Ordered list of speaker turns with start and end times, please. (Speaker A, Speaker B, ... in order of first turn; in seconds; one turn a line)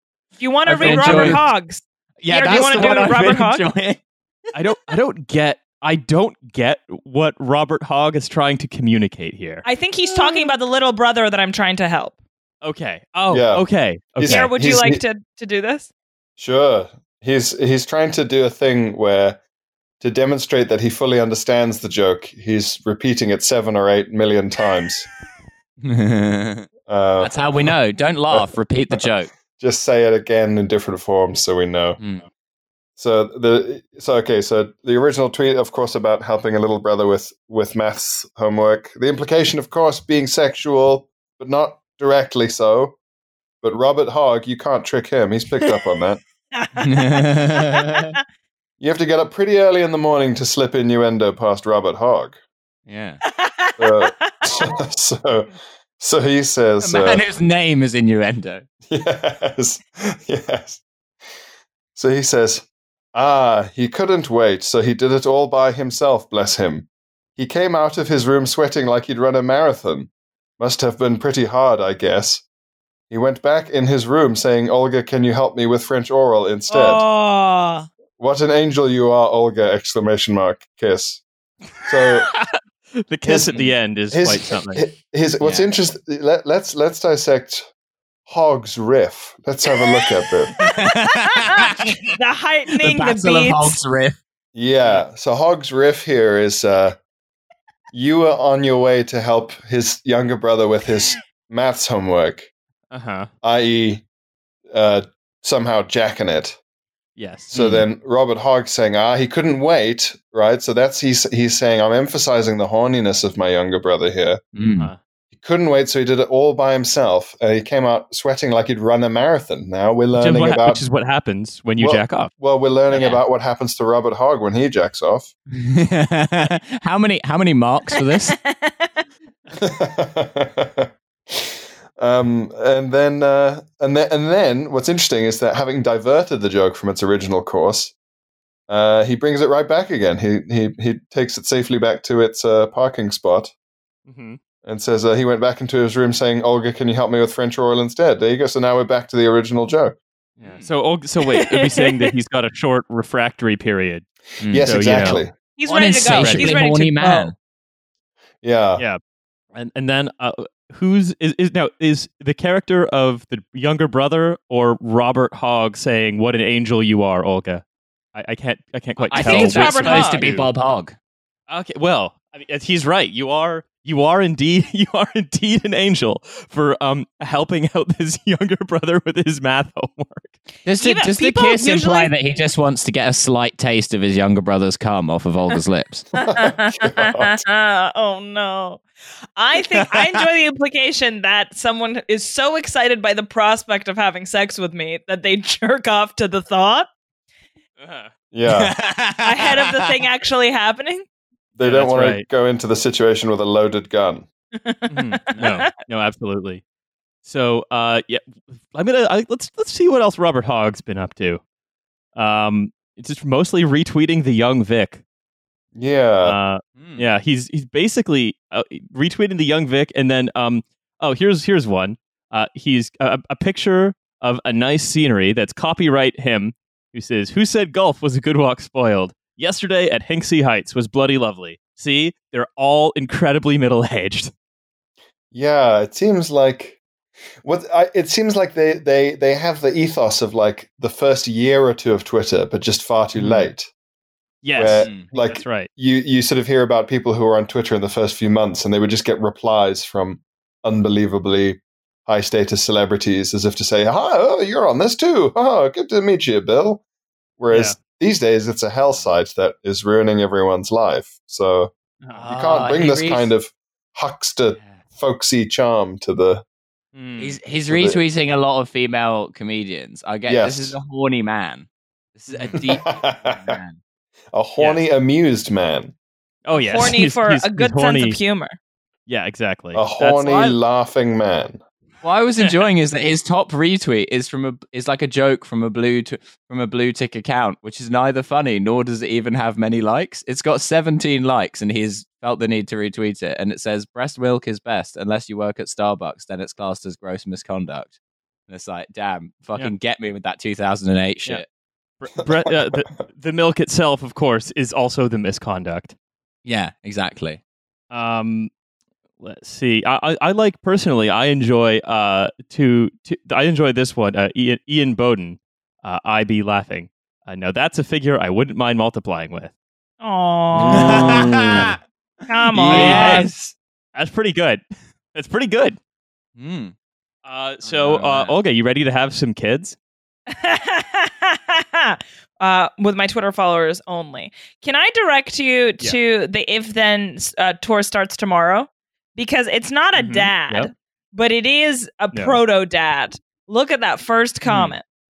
Speaker A: 0.4-3.6
Speaker B: 0.6-1.4
Speaker C: 0.7-1.4
Speaker B: 2.2-4.0
Speaker C: 2.7-3.1
Speaker C: 4.5-9.6
Speaker A: 9.6-12.2
Speaker C: 12.6-14.5
Speaker D: 13.3-15.0
Speaker A: 14.2-15.9
Speaker D: 16.4-19.4
Speaker D: 20.0-25.1
Speaker B: 25.8-26.6
Speaker D: 26.9-27.5
Speaker B: 27.2-29.3
Speaker D: 28.3-29.0
Speaker D: 29.6-32.0
Speaker D: 33.0-43.0
Speaker D: 43.6-46.2
Speaker A: 46.5-48.0
Speaker B: 46.8-48.1
Speaker D: 48.8-52.4
Speaker B: 52.9-53.2
Speaker A: 53.3-54.6
Speaker D: 53.8-57.3
Speaker B: 56.8-58.6
Speaker D: 58.9-60.8
Speaker D: 61.9-72.4
Speaker D: 73.1-77.0
Speaker A: 76.7-77.9
Speaker D: 78.2-81.2
Speaker D: 81.8-82.3
Speaker C: 83.1-84.8
Speaker D: 83.2-87.7
Speaker B: 85.4-85.7
Speaker D: 88.3-90.6
Speaker A: 90.6-90.8
Speaker B: 90.6-92.1
Speaker A: 92.1-93.8
Speaker B: 92.7-94.2
Speaker D: 94.5-97.0
Speaker D: 97.9-102.5
Speaker C: 102.9-103.3
Speaker D: 103.4-104.0
Speaker D: 104.7-106.6
Speaker C: 107.2-107.5
Speaker D: 107.5-114.4
Speaker B: 107.5-107.8
Speaker B: 114.5-114.9
Speaker D: 115.3-120.8
Speaker C: 120.1-122.3
Speaker D: 121.8-125.3
Speaker B: 122.9-123.2
Speaker B: 125.6-128.3
Speaker A: 127.9-129.0
Speaker D: 129.6-137.9
Speaker D: 138.7-143.5
Speaker C: 144.1-144.4
Speaker D: 144.6-149.9
Speaker C: 150.4-155.2
Speaker B: 150.4-150.7
Speaker A: 151.5-152.0
Speaker B: 154.4-157.3
Speaker D: 154.5-155.3
Speaker A: 155.6-157.3
Speaker C: 155.8-156.5
Speaker D: 158.4-158.8
Speaker C: 159.5-167.6
Speaker C: 168.1-170.5
Speaker B: 169.0-170.9
Speaker A: 169.1-170.3
Speaker C: 171.5-180.3
Speaker B: 180.6-186.1
Speaker A: 180.8-182.1
Speaker A: 186.2-188.8
Speaker D: 186.3-187.3
Speaker A: 189.3-196.9
Speaker C: 197.8-198.1
Speaker D: 198.3-198.7
Speaker B: 198.5-200.0
Speaker A: 199.2-201.0
Speaker D: 201.5-204.3
Speaker C: 201.6-202.2
Speaker A: 204.6-205.6
Speaker B: 204.9-205.6
Speaker C: 204.9-206.6
Speaker C: 207.2-211.4
Speaker C: 212.2-215.0
Speaker D: 215.7-216.4
Speaker C: 216.2-234.3
Speaker B: 216.8-217.1
Speaker D: 235.3-236.8
Speaker D: 237.4-243.7
Speaker C: 243.1-243.5
Speaker C: 244.4-245.7
Speaker D: 244.6-256.8
Speaker B: 244.8-245.1
Speaker D: 257.4-266.4
Speaker C: 257.5-257.8
Speaker C: 262.0-262.3
Speaker B: 262.3-263.3
Speaker C: 266.9-267.4
Speaker B: 267.2-273.8
Speaker D: 267.7-268.0
Speaker D: 270.3-270.8
Speaker C: 272.3-272.7
Speaker D: 272.8-273.6
Speaker D: 274.3-275.9
Speaker C: 274.6-274.8
Speaker C: 276.4-278.2
Speaker A: 276.6-278.6
Speaker C: 279.1-280.6
Speaker D: 279.7-281.6
Speaker B: 282.0-297.9
Speaker C: 282.4-282.6
Speaker B: 298.5-301.4
Speaker C: 302.0-305.9
Speaker B: 306.4-307.4
Speaker C: 307.9-308.5
Speaker C: 309.2-319.5
Speaker A: 320.0-321.2
Speaker B: 320.6-321.8
Speaker A: 322.3-323.3
Speaker C: 322.5-323.3
Speaker B: 322.6-323.5
Speaker C: 323.9-324.6
Speaker C: 325.1-325.8
Speaker B: 326.4-326.7
Speaker C: 327.2-329.8
Speaker B: 327.6-328.4
Speaker A: 330.3-344.8
Speaker C: 339.9-340.7
Speaker C: 342.1-342.4
Speaker C: 344.4-344.7